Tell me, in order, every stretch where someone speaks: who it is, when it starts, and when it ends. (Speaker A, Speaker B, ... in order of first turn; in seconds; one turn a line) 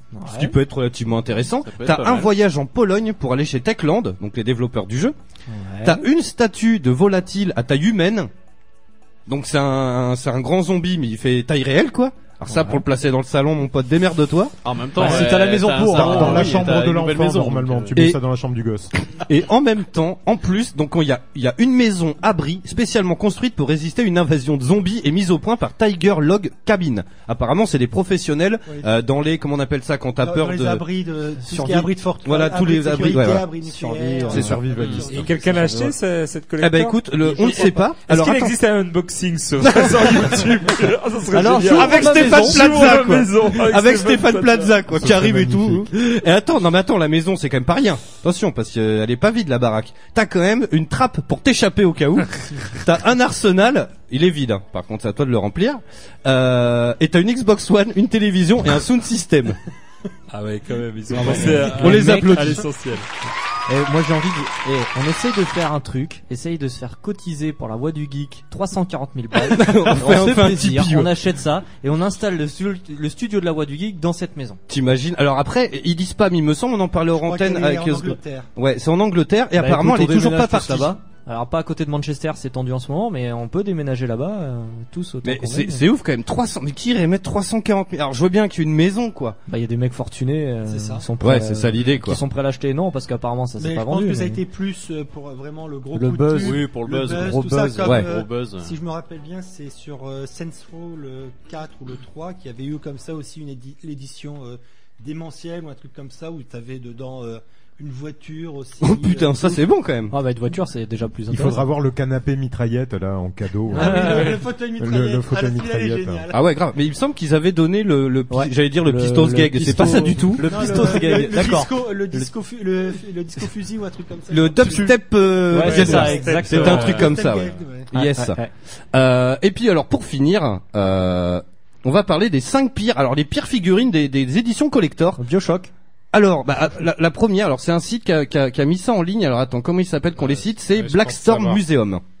Speaker A: 0.1-0.5
Speaker B: 0.2-5.1
Speaker C: 1.4-2.3
Speaker A: 5.5-6.0
Speaker B: 5.8-8.3
Speaker B: 9.3-14.5
Speaker A: 12.5-12.8
Speaker C: 14.6-18.0
Speaker A: 14.9-16.6
Speaker D: 15.9-18.9
Speaker B: 19.0-30.8
Speaker E: 30.2-35.9
Speaker A: 31.4-31.9
Speaker B: 32.2-33.5
Speaker A: 33.6-34.5
Speaker D: 34.3-35.7
Speaker B: 34.3-34.5
Speaker C: 34.7-35.1
Speaker F: 35.0-44.8
Speaker B: 36.6-38.6
Speaker E: 37.4-37.9
Speaker B: 39.6-40.4
Speaker A: 41.3-42.9
Speaker B: 41.7-59.6
Speaker D: 45.0-45.8
Speaker F: 60.3-63.0
Speaker A: 61.1-62.6
Speaker B: 61.1-62.6
Speaker A: 63.7-74.6
Speaker B: 69.4-71.1
Speaker B: 74.7-80.9
Speaker E: 77.2-78.5
Speaker A: 79.5-85.8
Speaker B: 85.2-89.4
Speaker A: 89.5-94.4
Speaker E: 90.7-91.1
Speaker B: 91.2-92.2
Speaker E: 93.6-109.6
Speaker A: 95.9-96.6
Speaker C: 96.3-98.7
Speaker A: 97.2-98.0
Speaker B: 108.8-110.1
Speaker A: 110.1-111.6
Speaker D: 111.3-116.3
Speaker A: 113.7-114.3
Speaker E: 113.7-116.3
Speaker F: 114.0-114.4
Speaker B: 116.3-120.9
Speaker A: 118.3-122.3
Speaker E: 120.4-124.9
Speaker B: 124.3-128.4
Speaker A: 125.5-126.9
Speaker E: 125.5-127.9
Speaker F: 125.8-127.2
Speaker A: 127.9-128.5
Speaker B: 128.9-135.2
Speaker A: 135.2-135.7
Speaker B: 136.1-142.0
Speaker F: 140.2-141.6